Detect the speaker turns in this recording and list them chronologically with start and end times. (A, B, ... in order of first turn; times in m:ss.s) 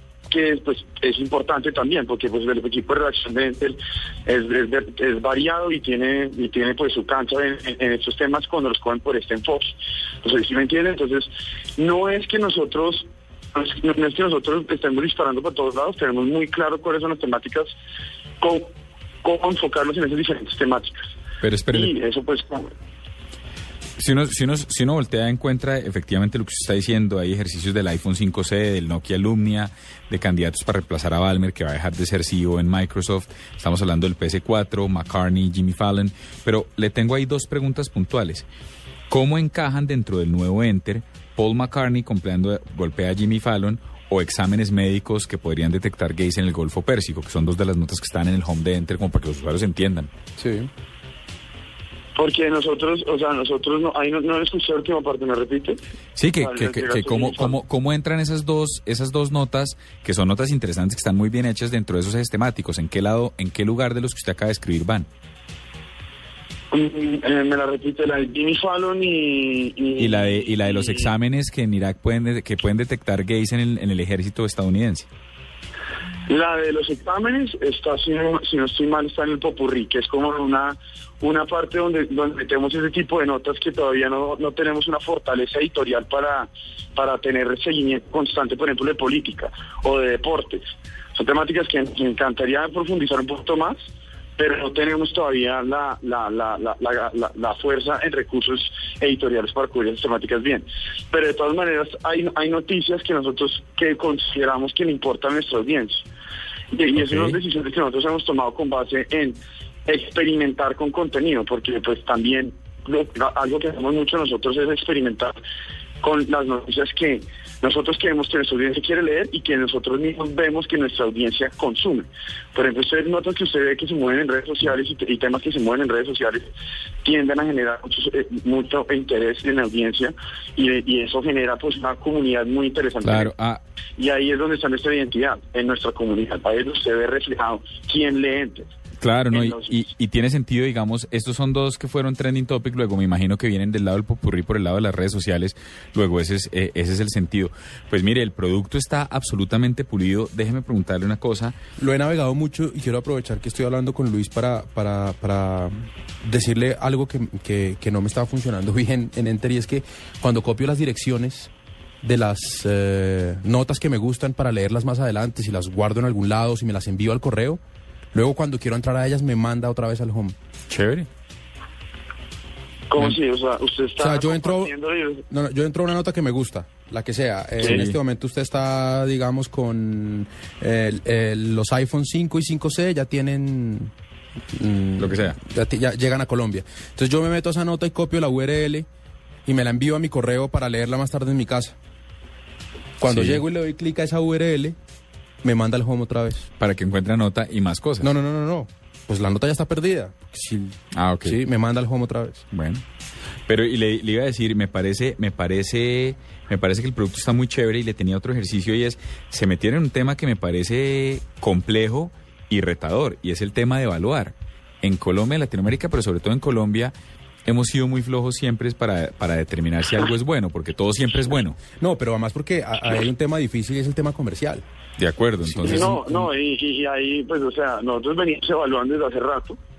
0:00.3-0:17.7 A
0:18.4-0:18.7 A
0:19.2-0:21.1 A
0:21.4-0:21.9 B
0:21.7-0:22.7 A
0:24.0-0:38.5 B
0:39.1-0:50.1 B
0:50.4-0:50.7 C
0:52.2-0:55.8 A
0:56.2-1:05.1 B
0:56.4-0:57.6 A
1:06.7-1:11.1 A
1:10.0-1:15.1 B
1:16.3-1:30.6 A
1:31.1-1:33.8 A
1:34.4-1:46.0 A
1:46.7-1:55.4 A
1:47.0-1:47.4 B
1:56.0-2:06.5 A
2:07.0-2:13.3 A
2:13.0-2:13.6 B
2:14.0-2:18.7 A
2:19.0-2:31.5 B
2:19.3-2:19.9 A
2:31.8-2:41.5 C
2:42.0-2:47.6 C
2:48.1-2:50.3 C
2:50.7-2:51.1 B
2:52.9-2:55.2 A
2:54.0-2:54.7 C
2:55.3-3:03.9 C
2:57.6-2:58.0 B
3:04.5-3:08.9 C
3:05.0-3:05.4 B
3:09.4-3:11.8 C
3:13.0-3:14.8 C
3:13.0-3:13.4 B
3:15.4-3:16.5 C
3:16.6-3:18.1 B
3:18.0-3:22.4 C
3:20.9-3:21.4 B
3:22.5-3:22.8 B
3:23.5-3:41.6 B
3:41.8-3:44.6 C
3:45.0-3:45.9 B
3:45.4-3:46.3 C
3:45.6-3:49.6 A